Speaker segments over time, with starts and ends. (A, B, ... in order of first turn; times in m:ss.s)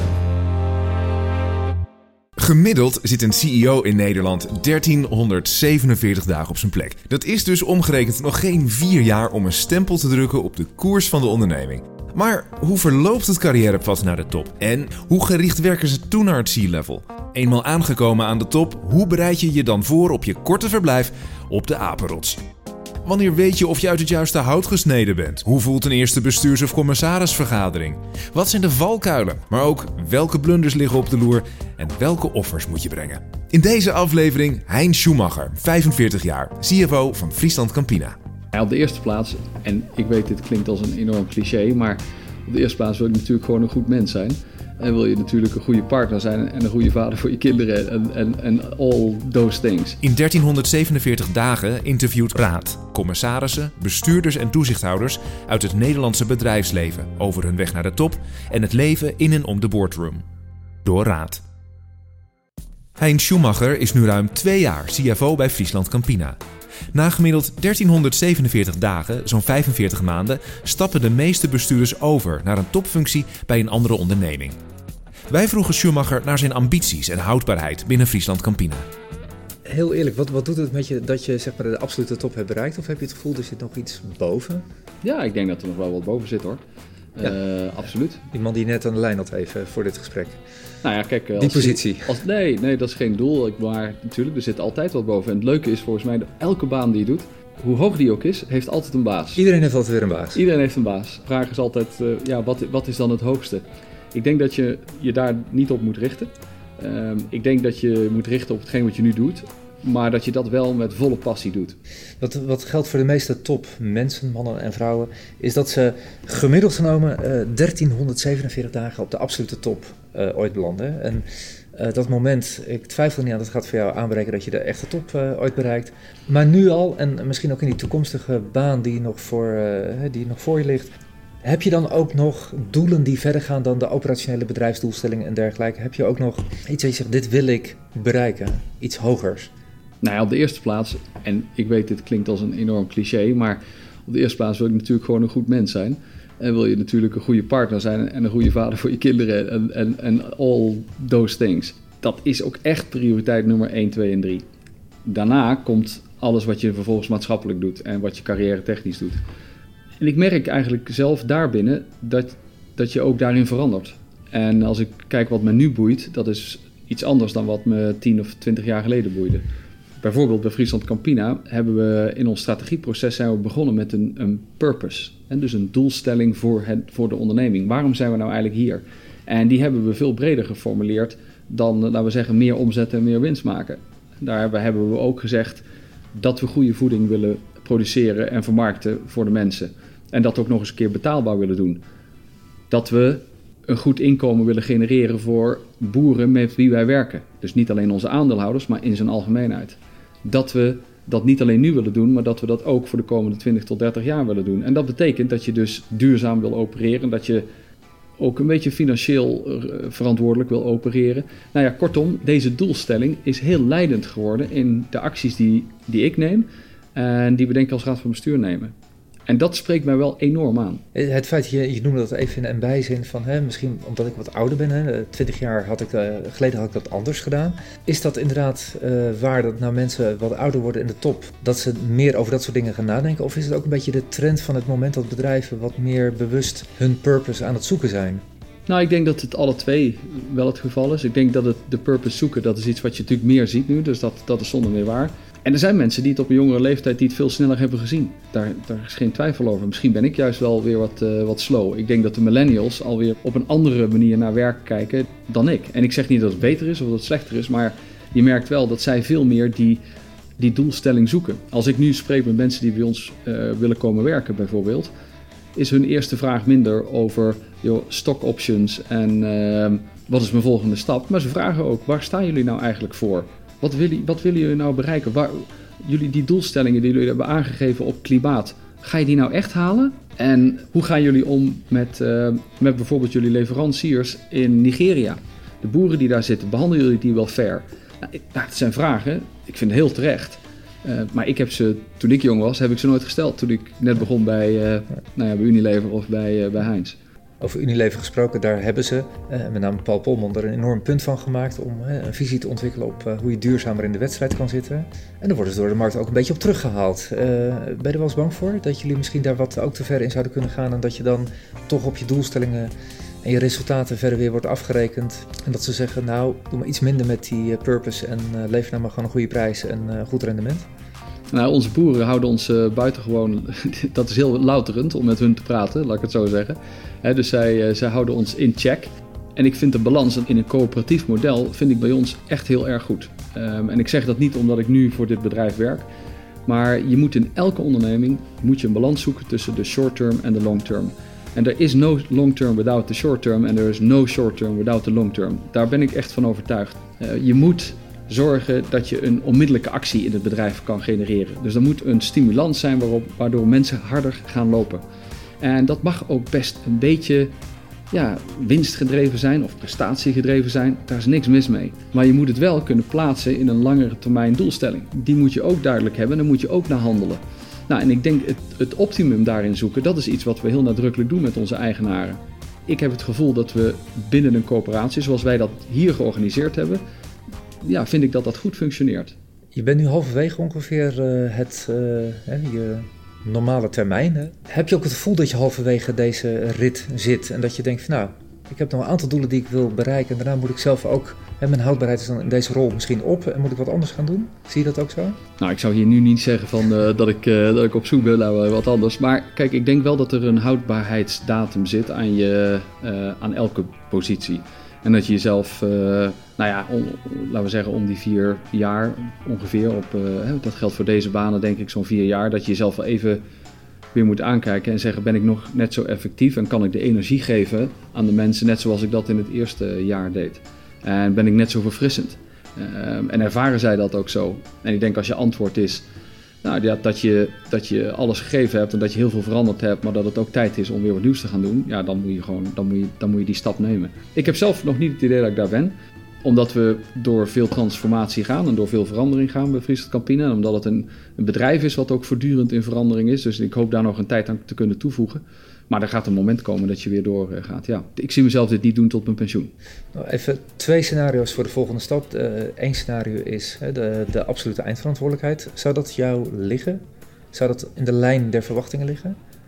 0:02.4-0:22.4 A
0:23.0-0:38.2 A
0:38.5-0:50.0 B
0:50.0-1:00.2 A
1:00.8-1:01.4 A
1:03.0-1:06.4 A
1:06.9-1:14.6 A
1:15.3-1:18.8 A
1:19.6-1:24.6 C
1:25.0-1:26.6 B
1:27.2-1:28.2 B
1:28.3-1:30.4 C
1:30.8-1:39.4 B
1:31.4-1:32.1 C
1:39.4-1:40.4 C
1:40.3-1:51.8 B
1:52.2-2:10.9 C
2:11.4-2:19.5 C
2:20.0-2:34.4 B
2:35.1-2:39.2 B
2:40.0-2:49.4 B
2:50.0-3:11.8 B
3:12.7-3:27.4 B
3:28.2-3:38.7 B
3:39.3-3:40.8 B
3:40.9-3:58.2 C
3:58.7-4:19.8 B
4:20.4-4:24.9 B
4:25.6-4:57.0 B
4:57.4-5:12.7 C
5:13.2-5:20.6 C
5:21.3-5:35.9 B
5:36.4-5:54.8 B
5:55.4-5:57.3 B
5:57.9-6:16.8 B
6:17.6-6:19.1 B
6:19.6-6:35.2 C
6:35.4-6:53.2 B
6:53.9-7:05.8 B
7:06.4-7:29.5 B
7:29.9-7:36.8 C
7:37.3-7:39.2 C